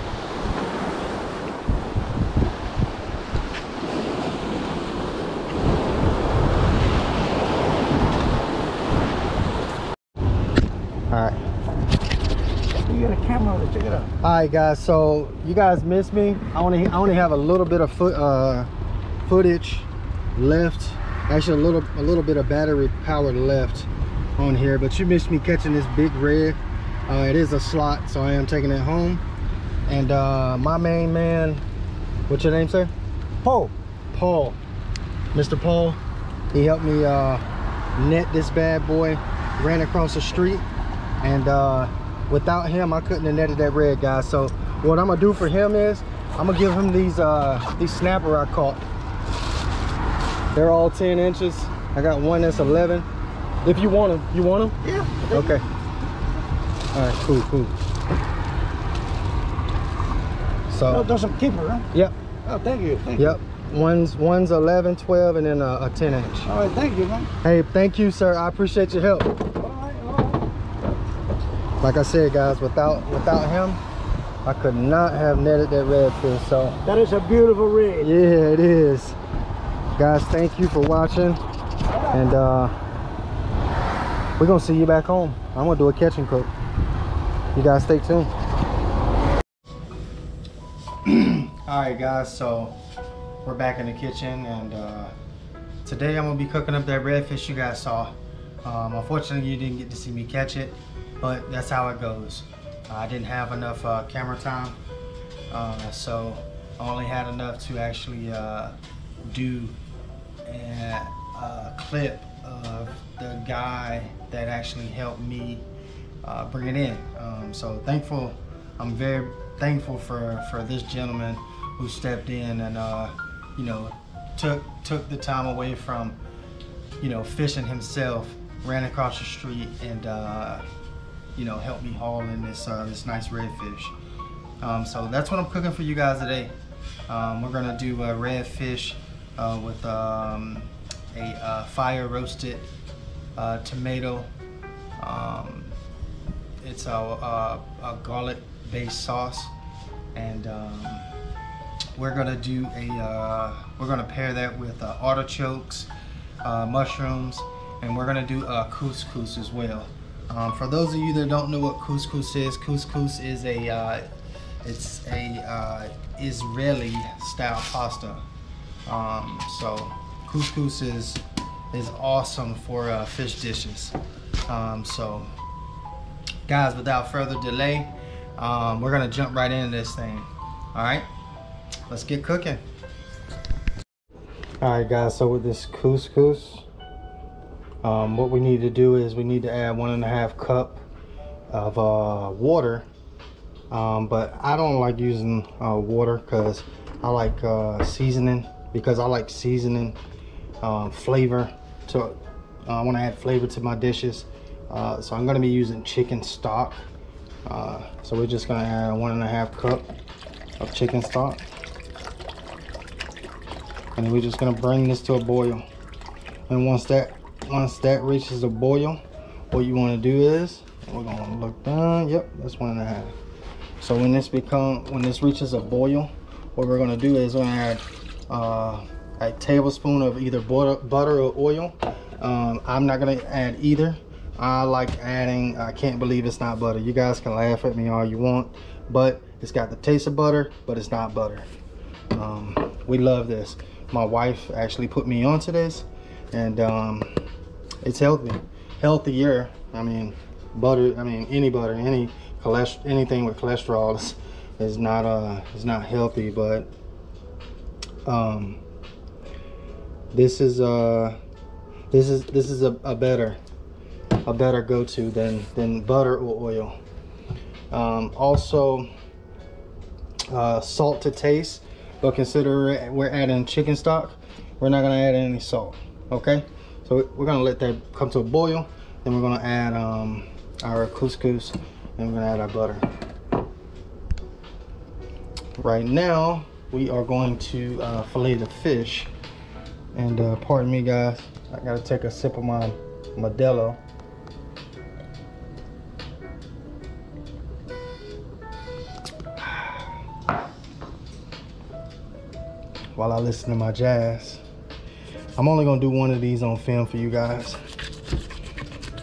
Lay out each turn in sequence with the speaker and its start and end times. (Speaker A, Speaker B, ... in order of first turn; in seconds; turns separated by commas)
Speaker A: 11.1-11.4, Speaker B: 12.8-14.1, Speaker A: 14.2-18.7, Speaker A: 19.2-29.2, Speaker A: 29.9-31.6, Speaker A: 32.3-32.9, Speaker B: 33.4-33.7, Speaker A: 34.1-34.6, Speaker A: 35.3-36.0, Speaker A: 36.5-37.4, Speaker A: 38.0-40.7, Speaker A: 41.2-48.8, Speaker A: 50.5-53.1, Speaker A: 53.6-54.8, Speaker B: 54.8-55.5, Speaker A: 55.3-55.6, Speaker A: 56.9-57.7, Speaker A: 60.7-61.1, Speaker B: 60.9-61.9, Speaker B: 62.5-63.4, Speaker A: 63.2-66.5, Speaker B: 66.5-67.3, Speaker A: 67.4-69.4, Speaker B: 69.6-70.4, Speaker A: 71.8-73.8, Speaker A: 74.5-76.8, Speaker B: 76.8-78.1, Speaker A: 78.0-79.2, Speaker A: 80.0-81.4, Speaker A: 82.1-82.8, Speaker A: 84.4-86.5, Speaker A: 87.5-88.3, Speaker A: 91.0-92.8, Speaker A: 93.4-95.1, Speaker A: 95.8-104.8, Speaker A: 105.5-109.8, Speaker A: 110.5-115.7, Speaker A: 116.2-126.2, Speaker A: 127.0-130.6, Speaker A: 131.4-133.9, Speaker A: 134.6-136.6, Speaker A: 137.1-142.7, Speaker A: 143.4-144.3, Speaker A: 145.0-145.8, Speaker A: 146.6-149.5, Speaker A: 150.2-151.1, Speaker A: 152.0-155.9, Speaker A: 156.4-164.1, Speaker A: 164.6-168.2, Speaker A: 168.9-173.9, Speaker A: 174.5-175.3, Speaker A: 176.5-181.1, Speaker A: 181.9-182.6, Speaker A: 184.6-186.7, Speaker A: 187.8-190.8, Speaker A: 191.5-192.9, Speaker A: 193.7-200.0, Speaker A: 200.6-206.9, Speaker A: 207.5-209.9, Speaker A: 210.6-211.4, Speaker A: 214.0-215.7, Speaker A: 216.5-223.2, Speaker A: 223.8-241.5, Speaker A: 242.1-247.2, Speaker A: 247.8-256.7, Speaker A: 258.1-258.6, Speaker A: 260.1-261.2, Speaker A: 261.9-263.4, Speaker A: 264.2-266.8, Speaker A: 267.7-268.9, Speaker A: 270.3-282.8, Speaker A: 285.6-289.1, Speaker A: 289.9-293.8, Speaker A: 299.4-299.9, Speaker A: 302.9-304.4, Speaker A: 305.4-307.6